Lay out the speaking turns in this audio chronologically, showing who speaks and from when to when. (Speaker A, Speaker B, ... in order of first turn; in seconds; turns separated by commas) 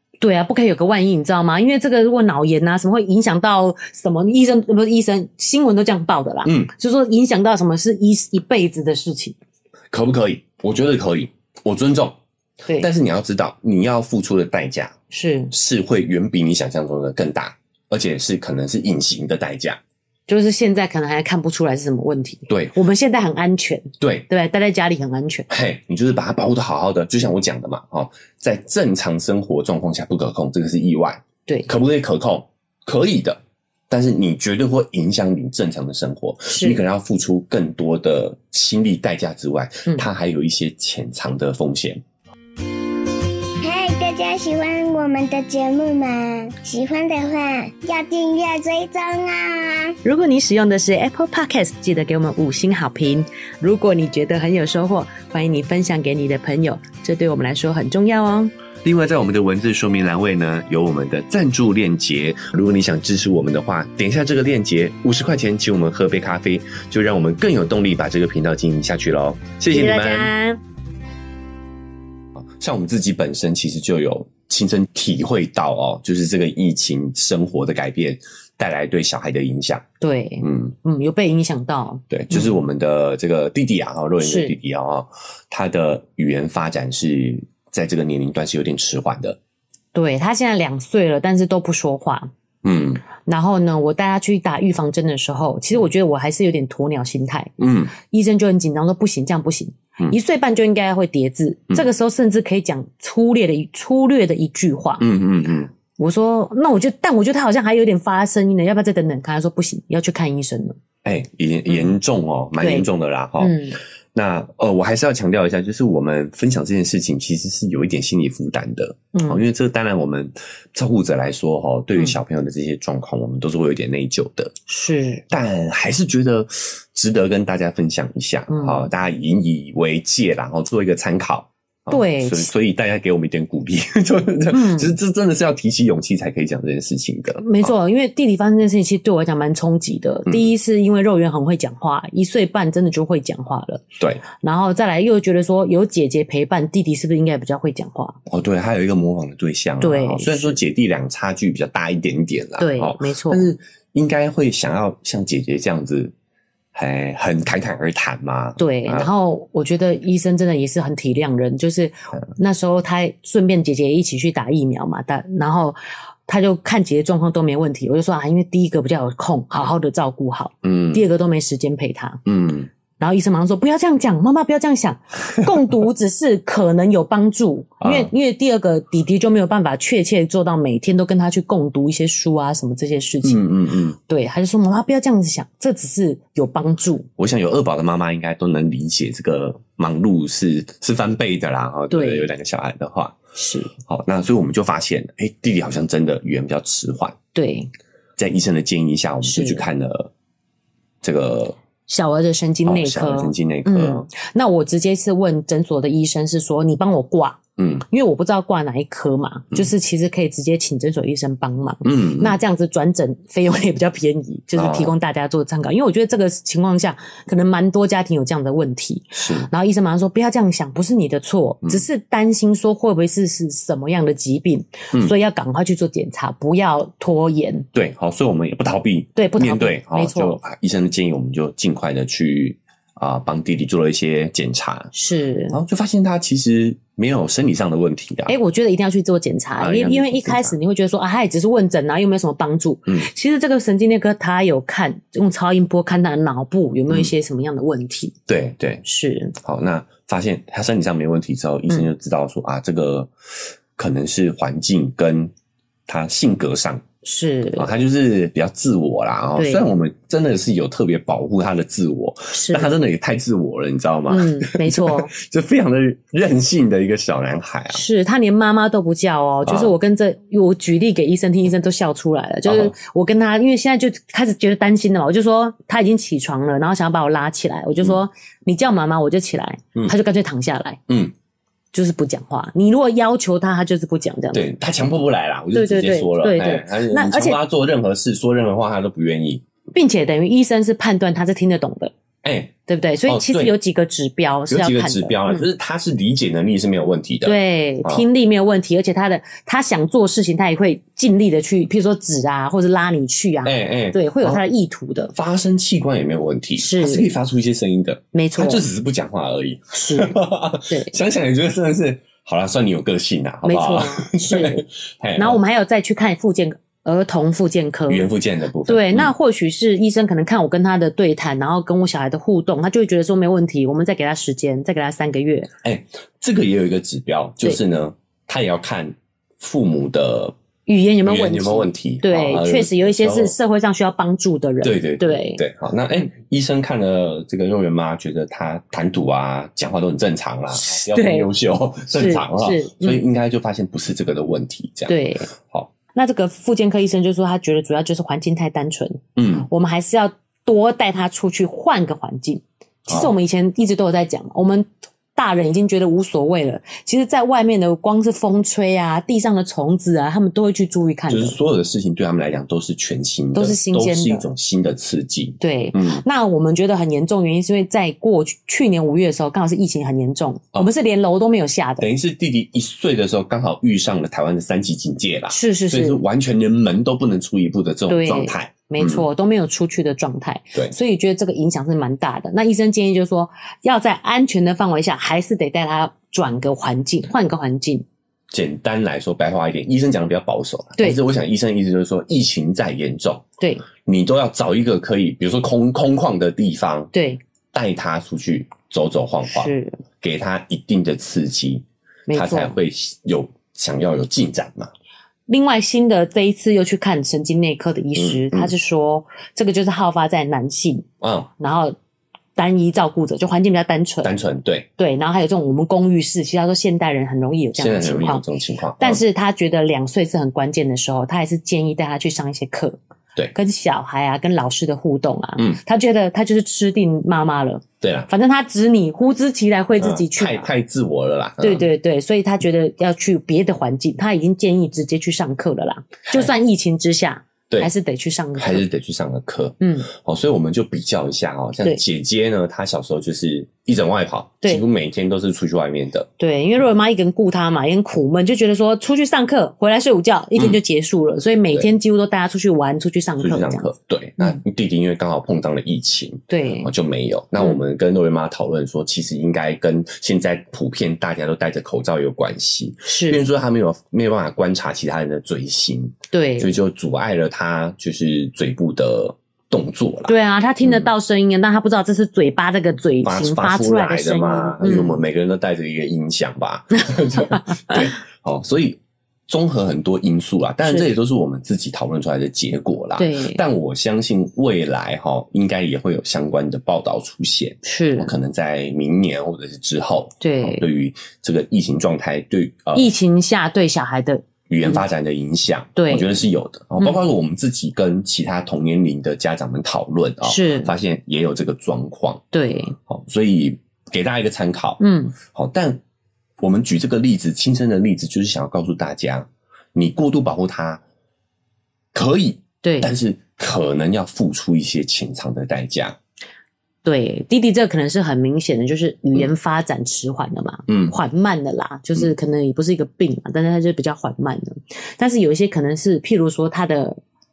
Speaker A: 0.2-9.3, Speaker B: 6.4-6.7, Speaker B: 9.9-12.2, Speaker B: 12.8-14.9, Speaker A: 15.1-15.5, Speaker B: 15.5-19.8, Speaker A: 20.3-25.5, Speaker B: 22.5-22.7, Speaker B: 24.0-24.3, Speaker B: 25.5-42.0, Speaker A: 36.5-36.8, Speaker C: 43.6-50.0, Speaker A: 50.0-58.5, Speaker B: 58.8-70.3, Speaker A: 69.7-70.6, Speaker B: 72.3-79.8, Speaker A: 80.0-82.5, Speaker B: 80.4-80.7, Speaker B: 82.1-89.4, Speaker A: 84.2-84.5, Speaker A: 89.9-92.3, Speaker B: 92.6-93.0, Speaker A: 93.2-105.0, Speaker B: 97.6-97.9, Speaker B: 105.0-105.7, Speaker A: 106.0-110.8, Speaker B: 111.0-113.6, Speaker A: 111.7-111.9, Speaker A: 112.6-112.9, Speaker A: 113.4-113.8, Speaker B: 114.1-124.5, Speaker A: 119.1-119.4, Speaker A: 124.7-125.2, Speaker B: 125.3-137.7, Speaker A: 128.5-128.9, Speaker A: 131.9-132.5, Speaker A: 134.5-134.9, Speaker A: 137.4-148.2, Speaker B: 148.3-156.1, Speaker A: 149.8-150.6, Speaker A: 152.6-153.5, Speaker B: 156.7-159.1, Speaker A: 158.6-172.2, Speaker B: 170.6-171.0, Speaker B: 172.2-172.7, Speaker A: 173.0-183.4, Speaker B: 177.8-178.1, Speaker B: 183.2-184.0, Speaker A: 184.1-187.1, Speaker B: 187.2-193.2, Speaker A: 191.9-192.3, Speaker A: 193.3-193.7, Speaker B: 193.8-197.2, Speaker A: 197.3-197.7, Speaker B: 198.2-200.1, Speaker A: 199.2-199.6, Speaker B: 201.0-201.6, Speaker A: 201.9-227.7, Speaker B: 202.6-204.1, Speaker B: 207.6-207.8, Speaker B: 211.8-212.4, Speaker B: 214.6-214.9, Speaker B: 219.2-219.5, Speaker B: 227.7-234.9, Speaker A: 229.2-230.4, Speaker A: 234.9-235.6, Speaker B: 235.5-238.3, Speaker A: 238.3-248.2, Speaker B: 239.6-240.6, Speaker B: 248.3-248.8, Speaker A: 248.8-249.3, Speaker B: 249.4-253.1, Speaker B: 253.8-255.3, Speaker B: 255.9-256.8, Speaker A: 257.0-257.7, Speaker B: 257.6-267.8, Speaker A: 259.4-259.6, Speaker A: 262.3-262.7, Speaker A: 264.1-265.1, Speaker A: 267.7-280.8, Speaker B: 269.4-269.7, Speaker B: 272.4-272.7, Speaker B: 280.9-281.1, Speaker A: 281.7-284.5, Speaker B: 284.3-289.4, Speaker A: 285.5-287.4, Speaker A: 289.7-291.9, Speaker B: 292.2-292.5, Speaker A: 292.7-295.4, Speaker B: 293.1-293.5, Speaker B: 294.5-298.0, Speaker A: 297.2-305.1, Speaker B: 303.4-304.4, Speaker B: 305.1-315.4, Speaker A: 306.6-307.1, Speaker A: 308.1-308.6, Speaker A: 309.7-310.1, Speaker A: 310.7-310.9, Speaker A: 313.4-314.6, Speaker A: 315.1-318.1, Speaker B: 317.9-319.1, Speaker A: 318.6-325.5, Speaker B: 325.6-330.4, Speaker A: 330.7-335.4, Speaker B: 331.0-333.4, Speaker B: 334.6-345.7, Speaker A: 340.5-341.3, Speaker A: 341.9-343.0, Speaker A: 344.9-345.3, Speaker A: 345.9-361.4, Speaker B: 349.1-349.5, Speaker B: 352.9-353.1, Speaker B: 361.1-366.0, Speaker A: 363.3-364.3, Speaker A: 365.4-371.9, Speaker B: 371.8-379.0, Speaker A: 375.3-376.0, Speaker A: 377.9-387.8, Speaker B: 388.3-393.2, Speaker A: 393.4-393.6, Speaker B: 393.8-396.9, Speaker A: 396.9-397.2, Speaker B: 397.5-404.7, Speaker A: 399.2-399.8, Speaker A: 402.1-402.6, Speaker A: 405.3-410.9, Speaker B: 407.9-408.5, Speaker B: 411.0-411.3, Speaker A: 411.4-411.7, Speaker A: 412.4-414.1, Speaker B: 414.0-414.7, Speaker A: 414.8-418.2, Speaker B: 417.6-419.0, Speaker A: 418.8-422.8, Speaker A: 423.3-430.5, Speaker B: 427.8-428.1, Speaker B: 429.8-431.7, Speaker A: 431.4-438.6, Speaker B: 438.4-446.1, Speaker A: 439.6-439.9, Speaker A: 446.2-453.7, Speaker B: 453.2-470.9, Speaker A: 456.3-456.7, Speaker A: 462.8-463.2, Speaker A: 466.1-466.6, Speaker A: 470.1-475.0, Speaker B: 473.0-492.9, Speaker A: 477.0-477.8, Speaker A: 483.0-483.4, Speaker A: 487.6-488.1, Speaker A: 490.2-490.6, Speaker A: 492.7-494.8, Speaker B: 494.5-502.2, Speaker A: 495.8-496.2, Speaker A: 500.2-500.7, Speaker A: 502.3-502.8, Speaker B: 502.9-505.8, Speaker A: 504.8-505.1, Speaker B: 506.4-510.8, Speaker B: 511.9-516.0, Speaker A: 512.6-512.9, Speaker A: 516.8-527.0, Speaker B: 520.7-521.0